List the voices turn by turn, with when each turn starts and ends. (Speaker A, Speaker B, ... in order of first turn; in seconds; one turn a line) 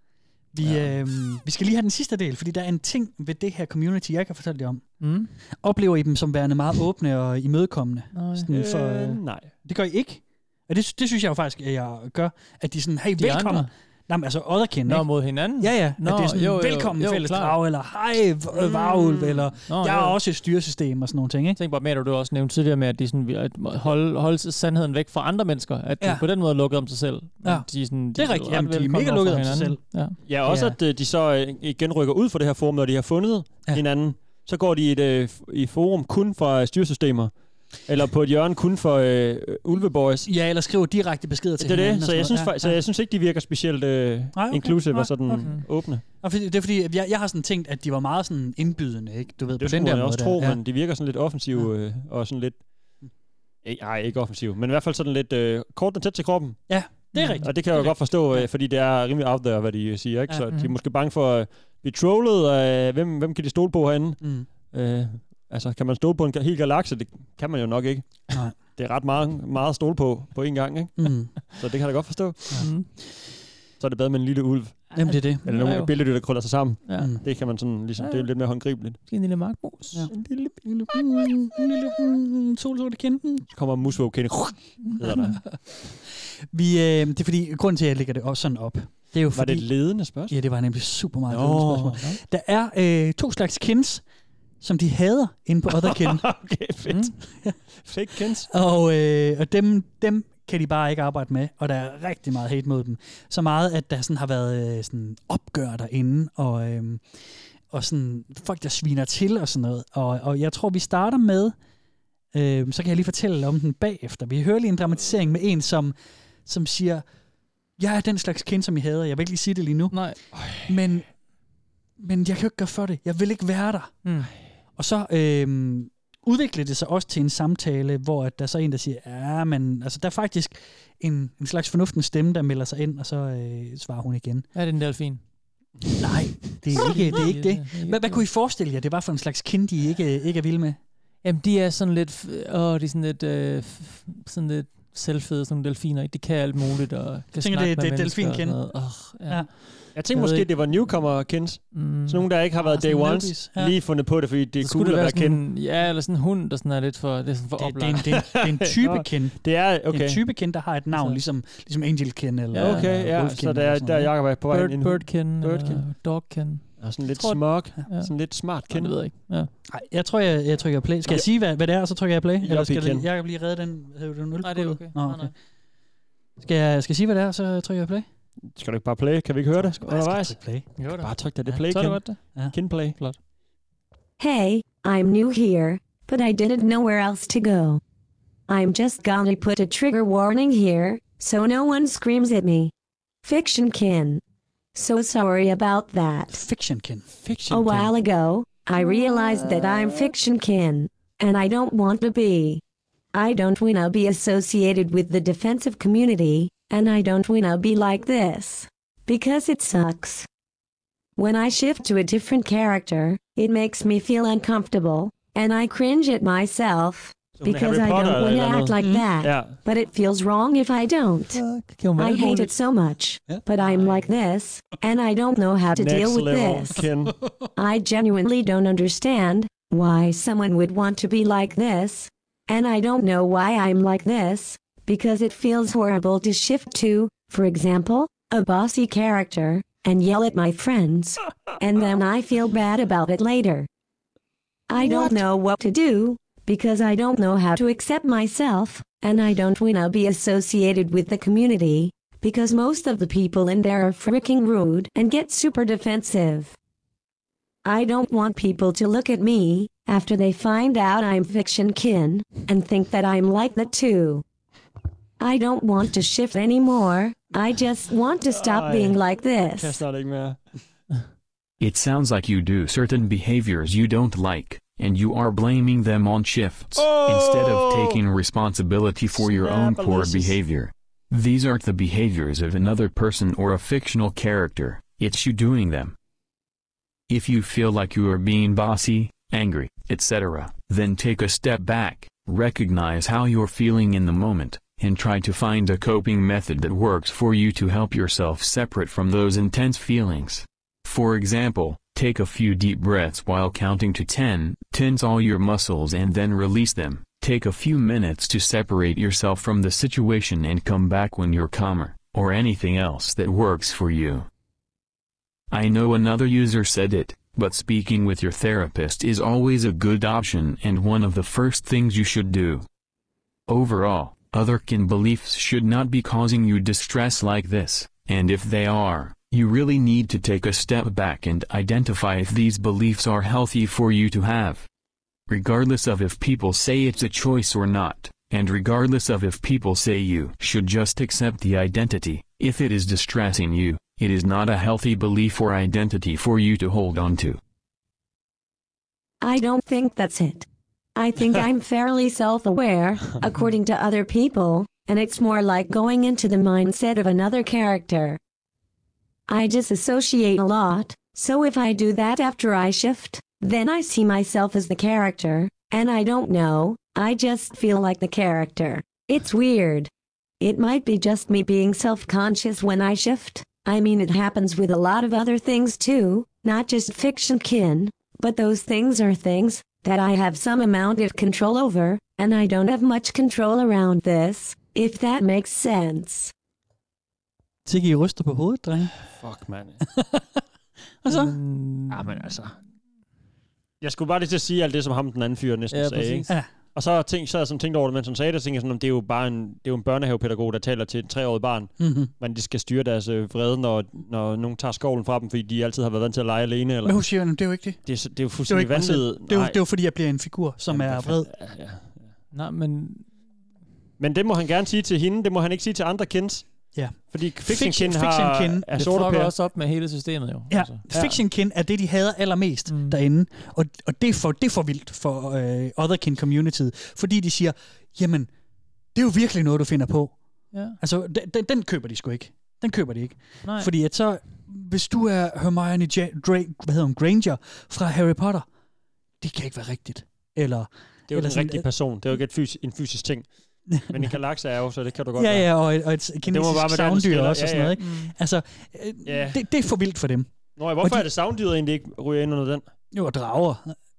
Speaker A: 0.5-5.0
Speaker B: 0.6-0.9
Speaker C: 5.0-5.3
Speaker A: 5.6-21.6
Speaker C: 8.1-8.5
Speaker B: 8.5-9.5
Speaker C: 13.2-13.7
Speaker C: 14.9-17.6
Speaker B: 18.6-19.4
Speaker C: 19.7-20.2
Speaker C: 21.6-30.2
Speaker A: 26.0-26.2
Speaker A: 27.4-30.8
Speaker B: 30.2-40.3
Speaker A: 40.3-42.8
Speaker B: 41.6-46.0
Speaker A: 44.3-50.6
Speaker B: 49.6-52.6
Speaker B: 53.6-72.7
Speaker A: 56.7-58.1
Speaker C: 57.1-58.4
Speaker A: 64.2-64.5
Speaker A: 71.0-71.4
Speaker A: 72.5-72.8
Speaker C: 72.6-72.9
Speaker B: 73.8-79.0
Speaker A: 75.0-75.5
Speaker C: 75.0-75.9
Speaker C: 76.9-77.3
Speaker A: 77.0-77.2
Speaker C: 78.0-78.3
Speaker C: 79.0-80.1
Speaker A: 79.9-83.5
Speaker B: 80.1-80.6
Speaker B: 83.5-85.7
Speaker C: 84.8-85.3
Speaker A: 85.0-85.5
Speaker A: 86.5-94.0
Speaker B: 89.3-90.4
Speaker B: 91.3-92.0
Speaker A: 94.6-96.3
Speaker B: 95.8-98.5
Speaker A: 96.9-97.5
Speaker A: 98.5-107.1
Speaker A: 107.7-111.6
Speaker A: 112.3-116.0
Speaker A: 116.5-117.1
Speaker A: 117.8-121.1
Speaker C: 119.9-120.2
Speaker A: 122.0-124.2
Speaker C: 124.0-124.3
Speaker A: 124.8-134.5
Speaker C: 134.6-135.2
Speaker A: 136.0-140.8
Speaker C: 136.7-138.3
Speaker C: 141.2-149.7
Speaker A: 147.4-150.5
Speaker B: 149.9-155.4
Speaker C: 151.7-152.3
Speaker A: 152.6-153.8
Speaker C: 154.6-158.0
Speaker A: 157.6-164.1
Speaker B: 158.1-160.2
Speaker C: 160.9-161.2
Speaker C: 162.5-162.9
Speaker B: 162.6-165.9
Speaker C: 164.5-169.5
Speaker B: 166.8-169.0
Speaker A: 169.7-175.3
Speaker B: 172.4-173.1
Speaker C: 174.4-175.3
Speaker A: 176.4-178.1
Speaker B: 178.5-180.4
Speaker A: 179.5-180.7
Speaker C: 180.8-182.3
Speaker B: 181.0-183.0
Speaker D: 184.2-187.8
Speaker D: 188.5-192.7
Speaker D: 193.2-194.2
Speaker D: 194.8-196.4
Speaker A: 196.3-197.1
Speaker B: 197.2-197.9
Speaker D: 197.5-202.6
Speaker D: 203.1-210.3
Speaker D: 211.2-221.4
Speaker B: 217.4-219.6
Speaker A: 218.8-219.1
Speaker C: 221.3-222.5
Speaker D: 222.0-226.8
Speaker C: 223.6-224.0
Speaker B: 225.8-227.2
Speaker D: 227.6-243.7
Speaker D: 244.7-256.5
Speaker D: 257.6-264.2
Speaker D: 265.2-269.8
Speaker B: 268.2-269.0
Speaker B: 269.6-270.4
Speaker E: 271.6-286.0
Speaker B: 276.8-278.0
Speaker B: 279.1-280.4
Speaker E: 287.1-314.3
Speaker E: 315.5-322.7
Speaker E: 323.5-334.7
Speaker E: 335.3-347.4
Speaker D: 349.2-358.2
Speaker D: 359.3-369.9
Speaker D: 370.4-386.3
Speaker A: 387.7-389.0
Speaker B: 389.1-389.8
Speaker A: 389.9-390.4
Speaker A: 391.0-391.4
Speaker C: 391.1-392.2
Speaker B: 391.9-392.6
Speaker B: 393.8-407.2
Speaker C: 395.7-396.3
Speaker A: 401.8-402.1
Speaker A: 406.8-407.9
Speaker B: 407.9-409.6
Speaker A: 408.4-411.3
Speaker B: 410.7-412.1
Speaker C: 412.3-413.1
Speaker B: 414.0-419.3
Speaker A: 416.8-418.7
Speaker C: 418.8-420.9
Speaker A: 420.5-428.3
Speaker B: 420.9-421.2
Speaker C: 422.7-423.0
Speaker A: 428.9-430.2
Speaker C: 430.5-430.8
Speaker A: 430.8-438.5
Speaker C: 433.4-433.7
Speaker A: 439.2-441.7
Speaker B: 441.1-445.5
Speaker A: 443.7-444.2
Speaker A: 445.2-451.1
Speaker B: 446.3-447.8
Speaker C: 447.8-448.1
Speaker B: 449.1-449.4
Speaker B: 450.6-452.7
Speaker A: 452.9-453.8